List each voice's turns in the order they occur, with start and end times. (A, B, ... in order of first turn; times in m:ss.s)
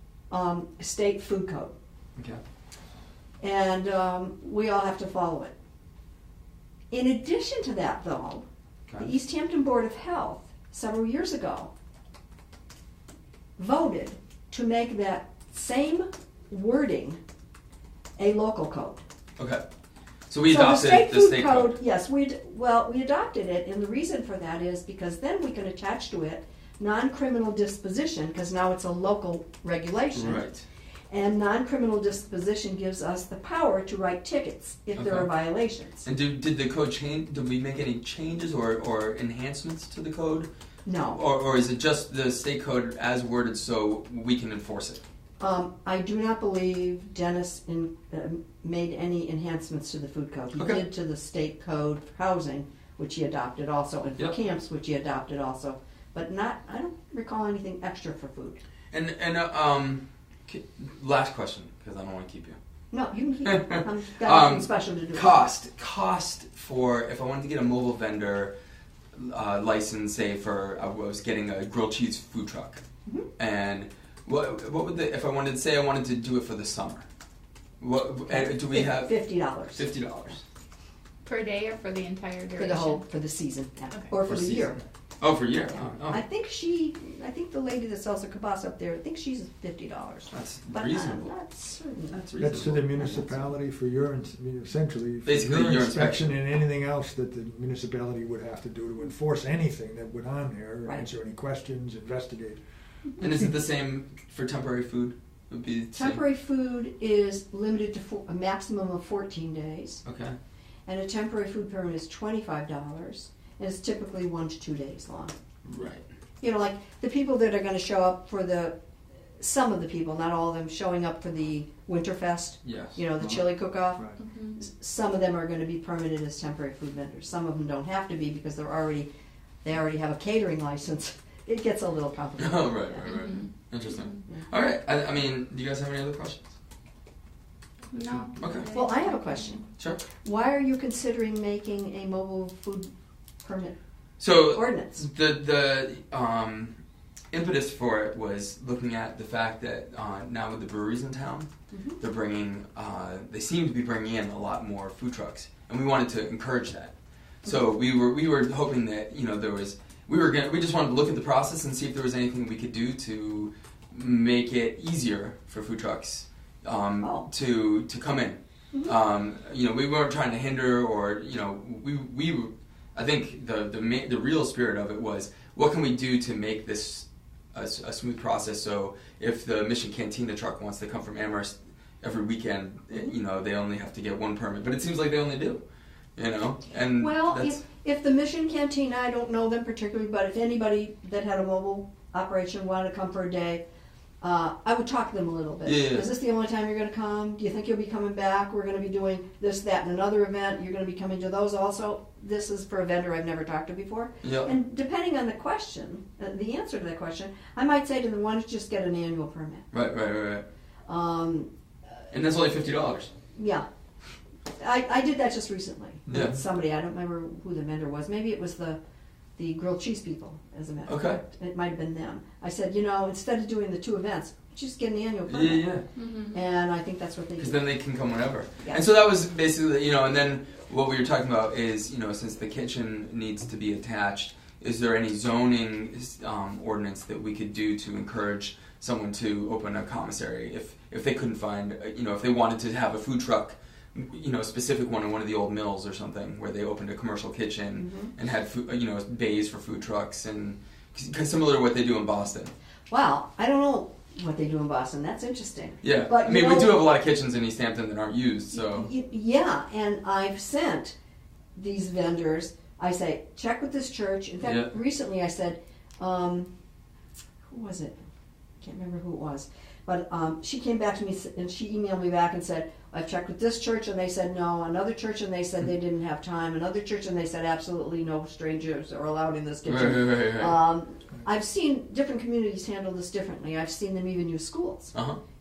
0:00.3-0:01.7 A
0:03.4-0:05.5 A
0:06.9-0:08.4 A
0:09.0-0:11.7 A
0:13.6-0:17.2 A
0:18.2-0:19.0 A
0:19.4-0:19.6 B
0:20.3-0:21.7 B
0:20.5-0:30.4 A
0:30.1-0:30.6 B
0:31.1-0:36.1 A
0:35.0-0:35.3 B
0:36.0-0:40.5 B
0:40.8-0:41.2 A
0:41.1-0:45.0 B
0:45.4-0:58.6 A
0:50.6-0:50.8 B
0:58.9-1:02.6 B
1:02.9-1:05.5 A
1:03.4-1:08.5 B
1:09.1-1:12.8 B
1:13.4-1:17.0 B
1:17.8-1:19.2 B
1:18.3-1:19.9 A
1:19.7-1:20.4 B
1:21.2-1:23.0 C
1:22.6-1:24.8 A
1:24.2-1:26.2 B
1:26.1-1:32.2 A
1:30.3-1:31.3 B
1:32.1-1:33.2 B
1:32.4-1:42.6 D
1:33.0-1:33.2 A
1:35.2-1:36.4 B
1:43.2-1:46.2 B
1:45.9-1:50.0 A
1:50.0-1:50.4 B
1:50.8-1:55.4 A
1:55.6-1:56.0 B
1:56.4-1:58.7 A
1:59.4-2:09.1 A
2:02.6-2:03.0 B
2:03.2-2:04.2 D
2:04.2-2:04.6 C
2:09.6-2:13.0 A
2:12.4-2:16.5 B
2:13.0-2:14.1 C
2:17.9-2:19.5 C
2:18.4-2:18.7 B
2:18.7-2:19.6 A
2:20.2-2:22.9 A
2:23.4-2:23.7 A
2:24.2-2:26.8 B
2:24.4-2:25.0 A
2:27.3-3:05.6 B
2:31.7-2:32.0 A
2:47.0-2:47.3 A
3:06.2-3:07.6 B
3:07.0-3:13.6 A
3:14.2-3:29.7 A
3:15.6-3:16.0 B
3:24.2-3:24.5 B
3:29.7-3:30.4 B
3:30.9-3:31.5 A
3:32.1-3:33.1 B
3:33.3-3:33.6 A
3:34.6-3:38.8 A
3:36.1-3:36.3 D
3:36.1-3:36.4 B
3:39.4-3:45.8 A
3:40.9-3:41.2 B
3:45.3-3:45.9 B
3:46.0-3:46.4 C
3:46.3-3:47.7 A
3:47.4-4:12.5 B
4:07.8-4:08.1 A
4:12.9-4:16.8 A
4:15.8-4:18.9 B
4:18.5-4:20.9 A
4:21.6-4:26.5 A
4:24.4-4:24.7 B
4:27.5-4:28.0 A
4:28.6-4:44.9 A
4:39.6-4:40.6 B
4:44.9-4:45.2 B